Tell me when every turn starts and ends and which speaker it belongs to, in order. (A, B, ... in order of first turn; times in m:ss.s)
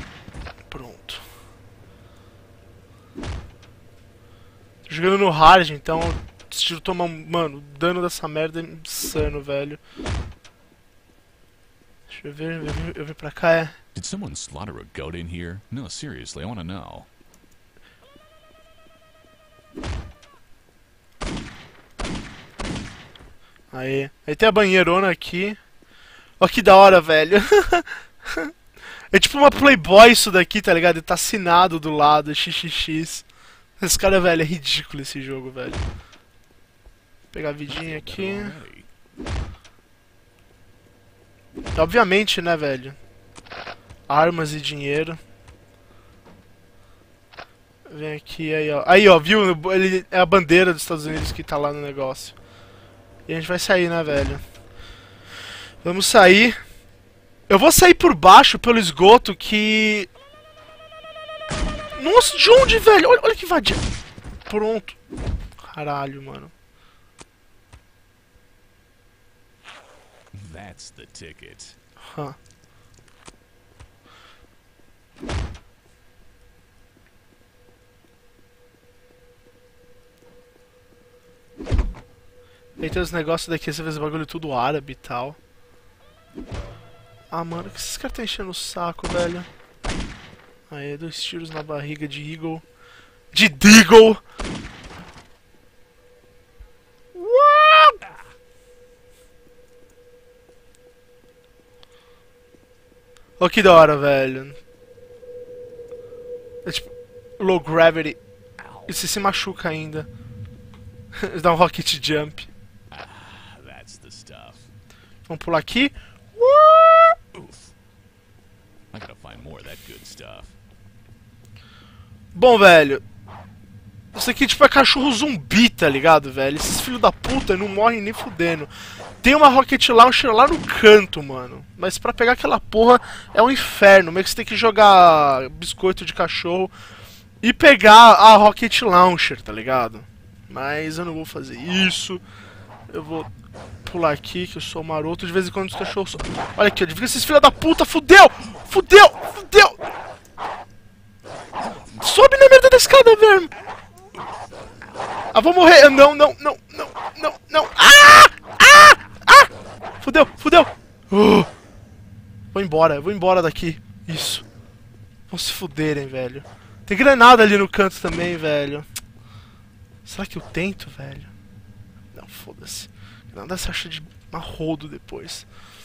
0:00.7-0:01.2 A
0:04.9-0:09.8 A
0:12.1-0:13.7 A
0:13.9-0:17.1 B
0:23.7-0:25.6 A
0:26.4-0:28.5 A
0:29.1-0:33.2 A
0:33.8-0:35.8 A
0:37.3-0:38.6 A
0:37.7-0:38.9 B
0:41.7-0:43.0 A
0:44.1-0:45.2 A
0:47.9-0:52.4 A
0:53.3-0:54.4 A
0:55.8-0:56.6 A
0:57.5-1:00.1 A
1:02.0-1:03.8 A
1:04.5-1:05.0 A
1:05.6-1:06.5 A
1:10.3-1:11.8 B
1:12.0-1:12.4 A
1:22.8-1:25.4 A
1:27.3-1:29.5 A
1:30.7-1:32.6 A
1:33.3-1:34.2 A
1:37.1-1:38.1 A
1:43.4-1:44.6 A
1:47.4-1:48.2 A
1:48.8-1:50.1 A
1:51.2-1:52.5 A
1:52.9-1:54.6 B
1:55.3-1:57.2 A
1:57.3-1:57.6 B
1:58.9-2:00.5 B
2:02.3-2:03.0 A
2:04.1-2:08.7 A
2:09.2-2:16.7 A
2:17.4-2:22.2 A
2:22.9-2:23.3 A
2:23.8-2:29.8 A
2:32.0-2:33.5 A
2:35.3-2:39.5 A
2:40.0-2:41.5 A
2:42.5-2:44.4 A
2:45.3-2:48.8 A
2:50.0-2:51.3 A
2:52.1-2:55.5 A